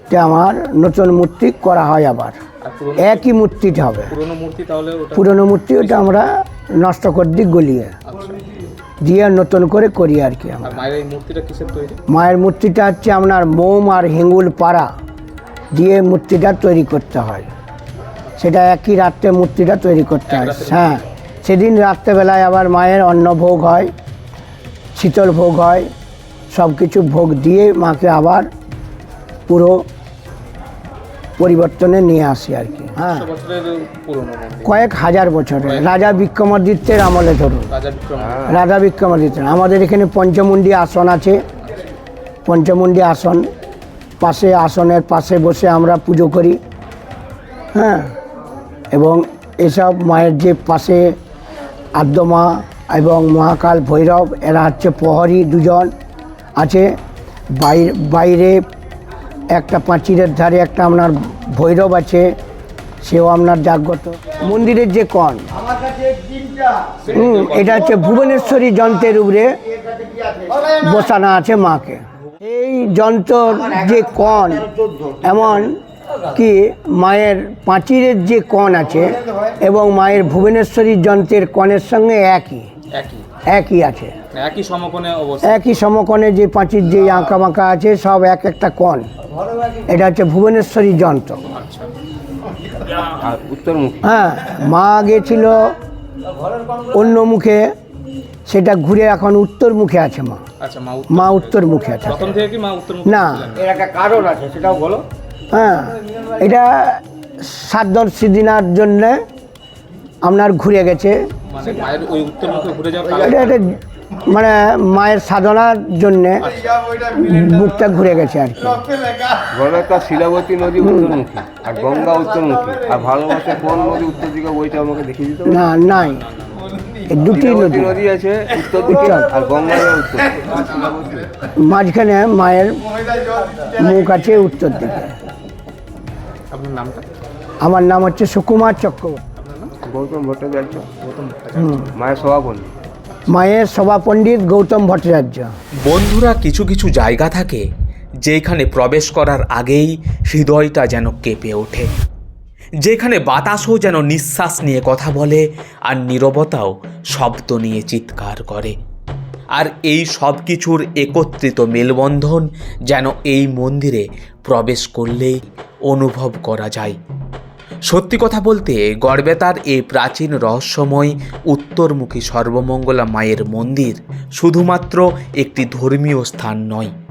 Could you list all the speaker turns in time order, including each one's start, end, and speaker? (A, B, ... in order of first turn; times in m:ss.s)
0:00.1-0:02.4 A
0:02.6-0:03.3 B
0:03.0-0:04.1 A
0:04.1-0:06.2 B
0:05.1-0:07.9 A
0:08.0-0:08.4 B
0:09.0-0:10.8 A
0:10.6-0:12.0 B
0:12.1-0:14.9 A
0:15.7-0:17.5 A
0:18.4-0:23.9 A
0:20.3-0:21.0 B
0:25.0-0:25.9 A
0:26.5-0:28.5 A
0:29.5-0:29.8 A
0:31.4-0:33.3 A
0:33.0-0:34.8 B
0:34.6-0:37.7 A
0:35.6-0:36.2 B
0:37.7-0:38.5 B
0:38.2-0:38.5 C
0:38.5-0:41.4 A
0:42.4-0:43.4 A
0:44.2-0:46.6 A
0:47.8-0:48.1 A
0:48.9-0:51.1 A
0:51.9-0:55.9 A
0:56.6-0:56.9 A
0:57.5-0:58.6 A
0:59.5-1:02.3 A
1:03.0-1:05.4 A
1:07.0-1:08.1 B
1:07.1-1:09.6 A
1:09.9-1:10.4 D
1:10.7-1:12.0 A
1:12.4-1:12.8 D
1:12.8-1:14.6 A
1:13.5-1:15.6 D
1:15.2-1:15.8 A
1:16.3-1:22.7 A
1:23.0-1:23.2 B
1:23.5-1:24.1 A
1:24.3-1:25.6 B
1:25.4-1:29.1 A
1:29.9-1:31.4 A
1:31.5-1:31.9 B
1:33.1-1:34.1 C
1:34.0-1:35.6 A
1:36.9-1:37.6 A
1:38.5-1:40.4 A
1:40.6-1:43.6 B
1:41.1-1:42.3 A
1:43.0-1:43.5 A
1:43.5-1:45.0 D
1:45.5-1:49.2 A
1:50.2-1:51.2 A
1:51.5-1:53.6 B
1:53.2-1:53.7 A
1:54.2-1:56.5 A
1:56.5-1:56.8 B
1:57.0-1:58.8 A
1:59.5-2:05.6 C
2:00.8-2:01.2 A
2:05.4-2:06.2 A
2:06.0-2:06.6 B
2:07.1-2:08.0 A
2:07.3-2:11.4 C
2:08.9-2:09.3 A
2:11.6-2:12.8 A
2:13.6-2:15.1 A
2:16.5-2:17.0 B
2:17.6-2:19.2 A
2:19.4-2:19.7 B
2:19.8-2:20.9 C
2:21.0-2:21.9 B
2:21.6-2:21.9 A
2:21.9-2:22.7 C
2:23.3-2:25.5 A
2:25.9-2:27.6 E
2:28.2-2:31.9 E
2:32.8-2:38.7 E
2:39.5-2:47.0 E
2:47.9-2:56.9 E